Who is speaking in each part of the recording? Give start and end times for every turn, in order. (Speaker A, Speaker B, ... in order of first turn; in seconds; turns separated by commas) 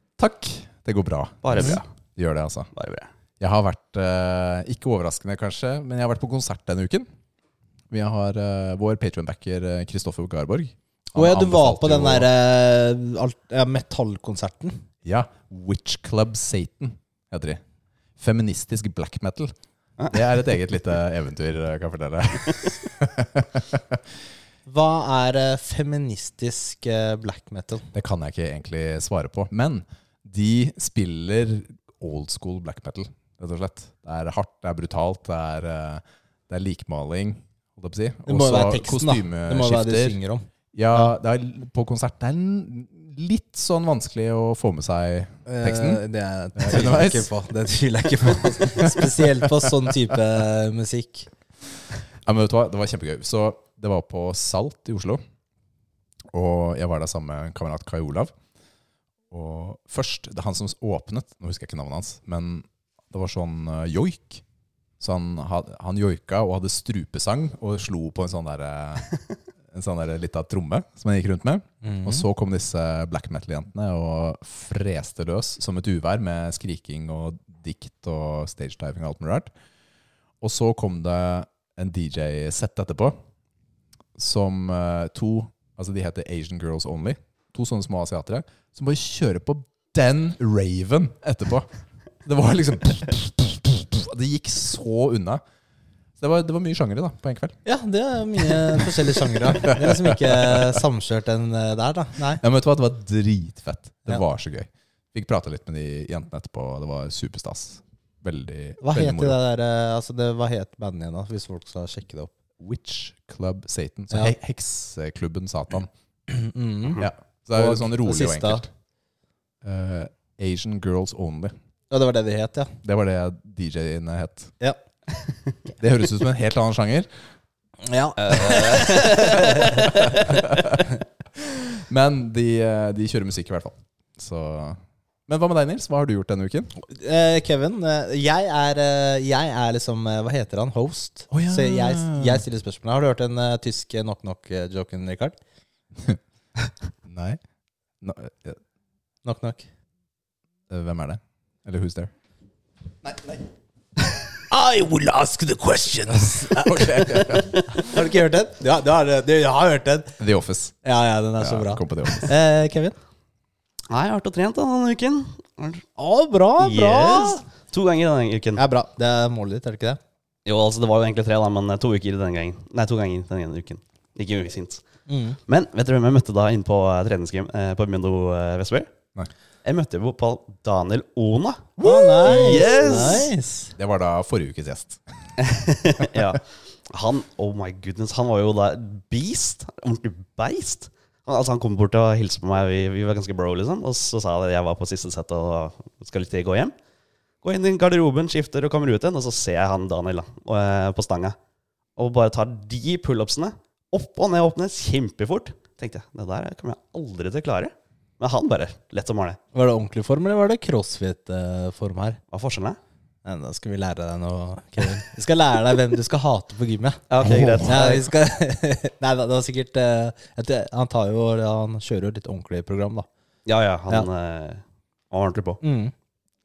Speaker A: 0.2-2.7, Speaker B: 1.4-1.9, Speaker B: 2.8-3.1, Speaker A: 3.4-7.1, Speaker A: 7.9-12.3, Speaker C: 11.2-14.8, Speaker A: 15.1-17.6, Speaker A: 18.2-19.5, Speaker A: 20.1-24.0, Speaker C: 24.7-27.9, Speaker A: 27.9-40.2, Speaker C: 38.3-41.1, Speaker A: 40.7-46.0, Speaker C: 45.5-51.3, Speaker A: 46.6-47.3, Speaker A: 48.7-49.2, Speaker A: 52.2-55.2, Speaker A: 56.3-58.3, Speaker A: 59.3-64.4, Speaker A: 65.0-69.1, Speaker A: 69.7-79.5, Speaker C: 71.8-72.2, Speaker A: 80.4-83.2, Speaker A: 84.2-91.7, Speaker A: 92.2-95.4, Speaker A: 96.2-97.6, Speaker C: 97.7-102.4, Speaker A: 98.4-98.9, Speaker A: 99.5-100.8, Speaker A: 102.4-109.4, Speaker C: 108.8-112.3, Speaker A: 112.6-115.9, Speaker C: 116.3-117.0, Speaker A: 117.0-118.7, Speaker C: 117.5-118.7, Speaker A: 119.6-121.5, Speaker C: 121.9-122.7, Speaker A: 122.8-124.5, Speaker A: 125.8-127.1, Speaker C: 127.8-130.4, Speaker B: 128.2-129.6, Speaker A: 129.7-136.7, Speaker C: 136.8-145.4, Speaker A: 141.3-142.4, Speaker A: 147.1-147.4, Speaker A: 148.0-148.6, Speaker C: 149.2-149.7, Speaker A: 150.7-152.1, Speaker C: 153.1-153.4, Speaker C: 154.5-160.1, Speaker A: 156.6-157.8, Speaker A: 160.2-160.7, Speaker C: 160.8-163.0, Speaker A: 161.4-162.3, Speaker B: 163.9-165.8, Speaker C: 166.0-167.4, Speaker B: 166.6-168.6, Speaker C: 168.6-170.0, Speaker B: 170.4-174.8, Speaker C: 175.1-175.4, Speaker B: 175.5-178.9, Speaker B: 179.6-181.7, Speaker A: 181.8-185.0, Speaker C: 181.8-183.7, Speaker B: 182.3-183.3, Speaker B: 185.4-196.7, Speaker B: 197.4-201.4, Speaker B: 202.0-209.4, Speaker C: 209.5-212.2, Speaker B: 212.3-212.8, Speaker C: 213.2-217.0, Speaker B: 217.1-218.1, Speaker A: 217.2-217.7, Speaker C: 217.6-223.1, Speaker B: 223.5-225.6, Speaker C: 225.6-225.9